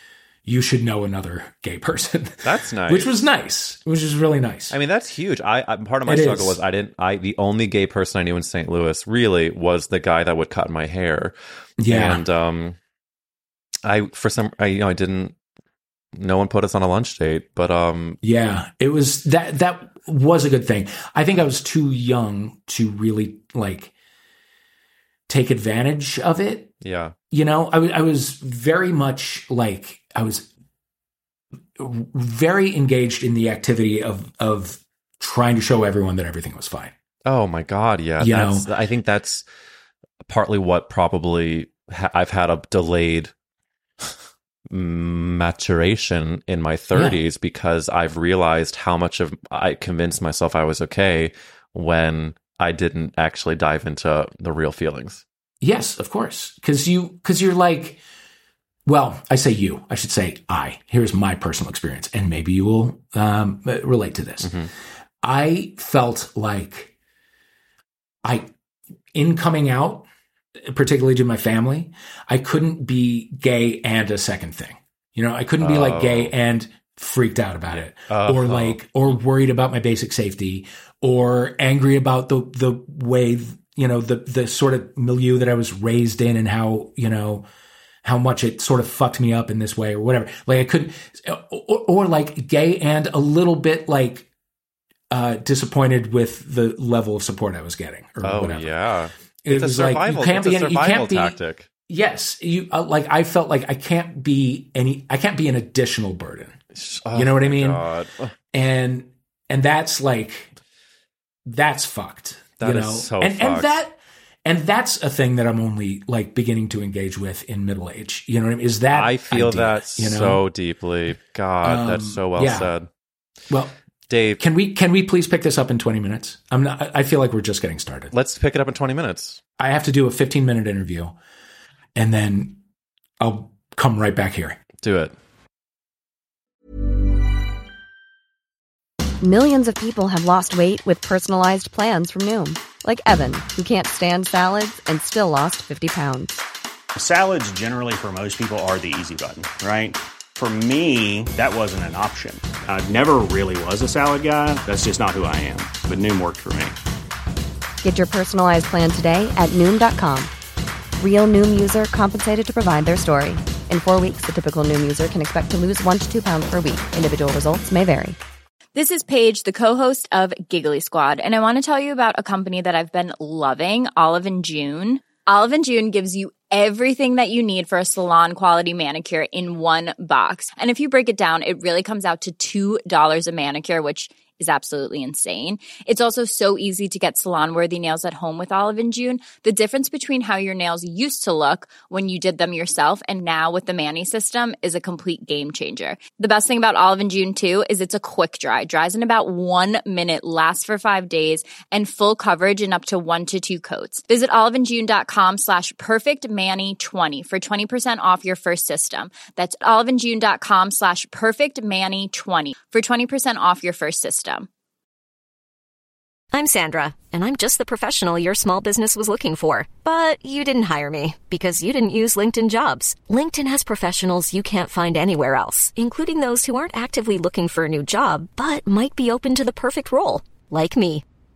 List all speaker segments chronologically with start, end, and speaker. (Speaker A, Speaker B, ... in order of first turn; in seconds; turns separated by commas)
Speaker A: 0.4-4.8, Speaker B: 2.4-3.1, Speaker B: 4.7-12.8, Speaker A: 6.0-6.6, Speaker A: 11.8-12.2, Speaker B: 13.8-15.3, Speaker B: 16.2-18.2, Speaker A: 18.2-23.9, Speaker A: 25.3-26.7, Speaker B: 26.8-27.1, Speaker A: 27.3-30.5, Speaker A: 31.8-36.9, Speaker B: 37.2-39.4, Speaker A: 38.2-38.7, Speaker B: 40.2-43.3, Speaker B: 44.7-55.2, Speaker A: 46.9-47.2, Speaker A: 55.6-58.0, Speaker A: 58.9-64.5, Speaker B: 64.4-64.7, Speaker A: 65.2-66.9, Speaker A: 68.2-68.5, Speaker A: 69.1-70.1, Speaker A: 70.6-87.5, Speaker B: 75.6-76.3, Speaker B: 77.7-78.8, Speaker A: 88.0-94.3, Speaker A: 95.1-98.7, Speaker B: 98.2-101.7, Speaker A: 99.4-106.5, Speaker B: 106.7-108.3, Speaker A: 107.1-107.8, Speaker A: 108.5-110.5, Speaker A: 111.5-120.4, Speaker B: 112.6-113.8, Speaker B: 118.9-122.9, Speaker A: 121.6-122.7, Speaker A: 123.5-123.7, Speaker B: 124.1-124.4, Speaker A: 124.4-128.1, Speaker B: 128.1-129.4, Speaker A: 129.6-131.2, Speaker A: 131.9-132.6, Speaker A: 133.2-134.6, Speaker B: 134.8-135.1, Speaker C: 139.2-146.3, Speaker D: 146.9-156.8, Speaker C: 157.8-160.3, Speaker C: 161.0-168.2, Speaker E: 168.7-214.5, Speaker F: 216.3-231.0